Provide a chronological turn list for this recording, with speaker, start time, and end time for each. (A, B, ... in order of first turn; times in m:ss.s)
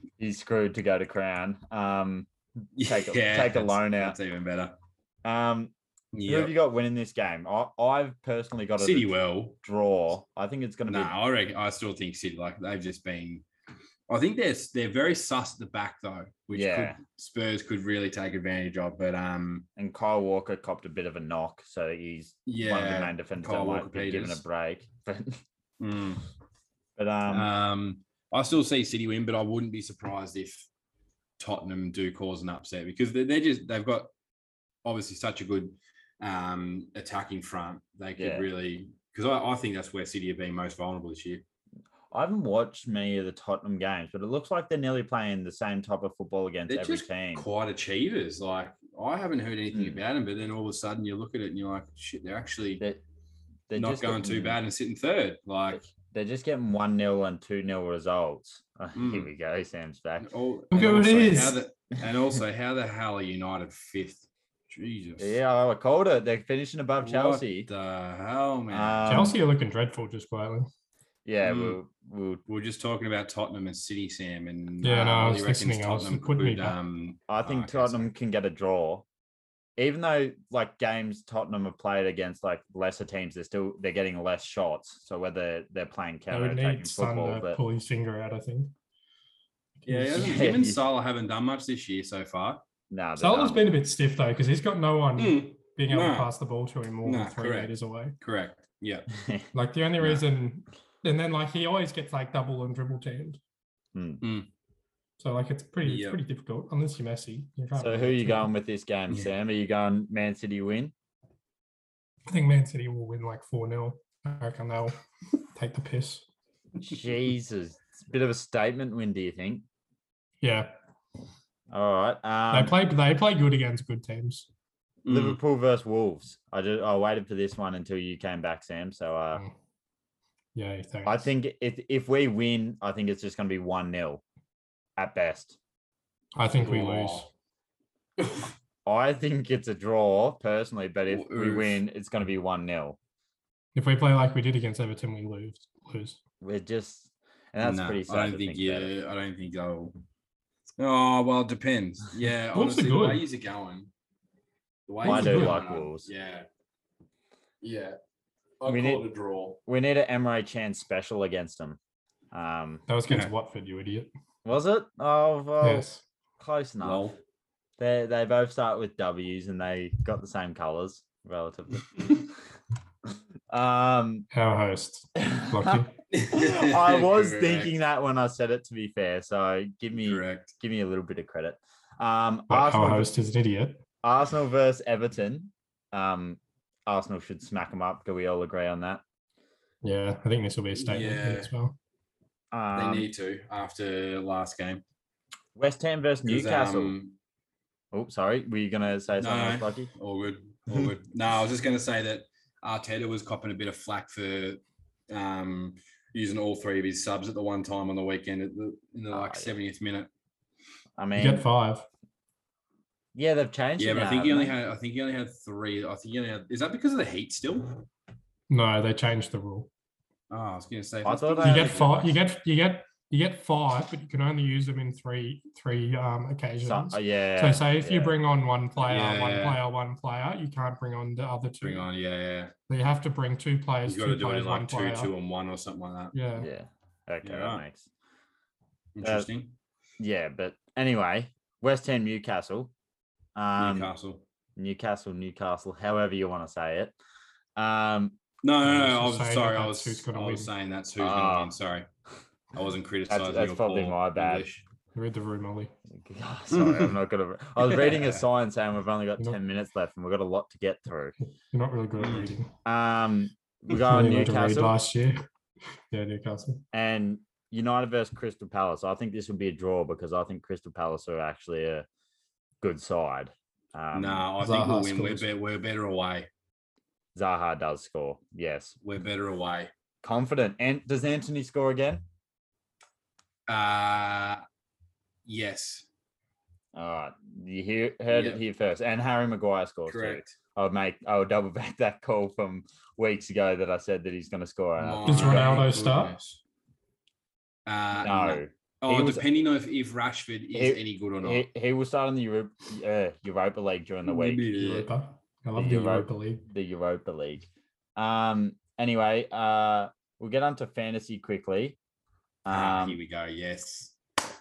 0:00.2-0:02.3 A
0:02.8-0:04.7 B
0:02.8-0:04.2 A
0:05.2-0:05.7 A
0:06.1-0:06.5 B
0:06.2-0:11.1 A
0:08.8-0:09.6 B
0:10.9-0:13.4 B
0:14.1-0:19.7 B
0:16.5-0:17.0 A
0:19.8-0:25.4 A
0:22.4-0:24.4 B
0:25.8-0:26.2 B
0:27.0-0:27.5 A
0:27.3-0:30.7 B
0:31.4-0:34.1 B
0:34.8-0:41.4 B
0:38.2-0:38.5 A
0:42.1-0:47.5 A
0:46.7-0:52.8 B
0:49.7-0:50.0 A
0:53.7-0:54.6 A
0:53.8-0:55.8 B
0:55.7-1:00.3 A
0:58.9-0:59.3 B
1:00.2-1:05.4 B
1:00.7-1:01.6 C
1:05.2-1:07.7 A
1:07.0-1:09.3 B
1:08.7-1:09.4 A
1:09.1-1:10.7 C
1:11.2-1:12.4 A
1:11.4-1:11.8 B
1:12.5-1:18.1 B
1:14.8-1:16.8 C
1:17.3-1:19.0 A
1:19.8-1:27.6 A
1:26.3-1:28.7 C
1:29.8-1:30.5 C
1:29.9-1:32.6 B
1:30.2-1:30.8 A
1:32.9-1:33.6 A
1:33.2-1:38.2 C
1:35.2-1:36.3 B
1:37.0-1:39.1 B
1:39.2-1:39.5 A
1:39.5-1:43.4 C
1:43.9-1:44.2 A
1:44.2-1:44.5 B
1:45.2-1:48.5 C
1:45.8-1:46.2 B
1:47.7-1:50.9 A
1:52.3-1:55.0 C
1:55.5-1:56.2 C
1:56.8-1:59.6 A
2:00.4-2:00.7 C
2:01.7-2:02.7 A
2:02.5-2:04.5 C
2:05.0-2:05.4 B
2:05.1-2:09.4 A
2:10.5-2:11.3 C
2:11.0-2:14.2 A
2:15.0-2:15.6 A
2:16.3-2:17.3 C
2:16.5-2:17.3 B
2:18.8-2:23.0 A
2:21.1-2:21.8 B
2:23.7-2:26.2 C
2:26.4-2:28.9 A
2:27.6-2:30.0 B
2:30.8-2:33.9 B
2:32.5-2:33.2 C
2:34.9-2:36.5 B
2:35.0-2:36.1 A
2:35.0-2:35.6 C
2:37.6-2:38.0 B
2:38.6-2:39.6 B
2:38.6-2:39.1 A
2:39.6-2:41.8 A
2:42.3-2:42.8 A
2:42.9-2:44.1 C
2:44.4-2:45.9 A
2:45.6-2:46.0 C
2:46.4-2:47.1 A
2:46.8-2:47.2 B
2:47.8-2:52.2 A
2:53.1-2:54.3 A
2:54.3-2:55.9 C
2:55.2-3:03.1 A
2:56.1-2:57.8 B
3:00.0-3:00.5 B
3:02.5-3:03.8 C
3:04.0-3:09.0 A
3:09.8-3:11.7 C
3:10.8-3:11.5 B
3:12.5-3:13.1 A
3:12.7-3:14.8 B
3:15.6-3:17.0 A
3:16.2-3:17.1 B
3:17.9-3:19.9 A
3:19.2-3:30.1 B
3:29.1-3:29.5 A
3:31.0-3:31.5 A
3:31.2-3:31.9 C
3:33.1-3:34.5 A
3:33.8-3:37.7 B
3:38.5-3:39.7 C
3:40.3-3:42.2 B
3:41.0-3:42.0 A
3:41.4-3:51.9 C
3:46.6-3:48.2 A
3:48.8-3:49.6 B
3:51.6-3:52.5 B
3:52.7-3:55.1 C
3:53.8-3:56.1 B
3:56.1-3:56.5 C
3:56.4-3:57.9 A
3:57.2-3:57.6 B
3:59.0-3:59.5 B
3:59.0-3:59.3 A
4:00.0-4:02.7 A
4:03.4-4:03.9 A
4:03.6-4:04.2 B
4:04.6-4:06.9 A
4:07.6-4:08.2 A
4:08.4-4:11.9 B
4:08.6-4:10.5 C
4:11.0-4:11.5 A
4:12.5-4:14.6 B
4:13.1-4:14.4 A
4:14.9-4:15.7 C
4:15.9-4:21.1 A
4:16.5-4:17.0 B
4:17.6-4:18.2 B
4:21.5-4:22.5 C
4:22.0-4:22.3 B
4:22.6-4:24.7 A
4:23.8-4:25.2 C
4:25.9-4:26.6 C
4:26.7-4:31.9 A
4:32.6-4:34.3 A
4:33.9-4:36.3 B
4:34.4-4:35.3 C
4:37.1-4:38.7 A
4:38.8-4:39.7 B
4:40.0-4:42.0 A
4:43.5-4:44.4 B
4:45.2-4:45.9 B
4:46.7-4:55.6 A
4:48.1-4:48.4 B
4:49.9-4:50.4 B
4:54.8-4:56.4 B
4:55.0-4:56.2 C
4:57.6-5:01.4 B
4:58.0-4:59.2 A
5:00.5-5:04.5 A
5:04.0-5:04.9 B
5:04.5-5:06.5 C
5:05.6-5:11.8 A
5:12.4-5:13.0 A
5:12.5-5:13.9 B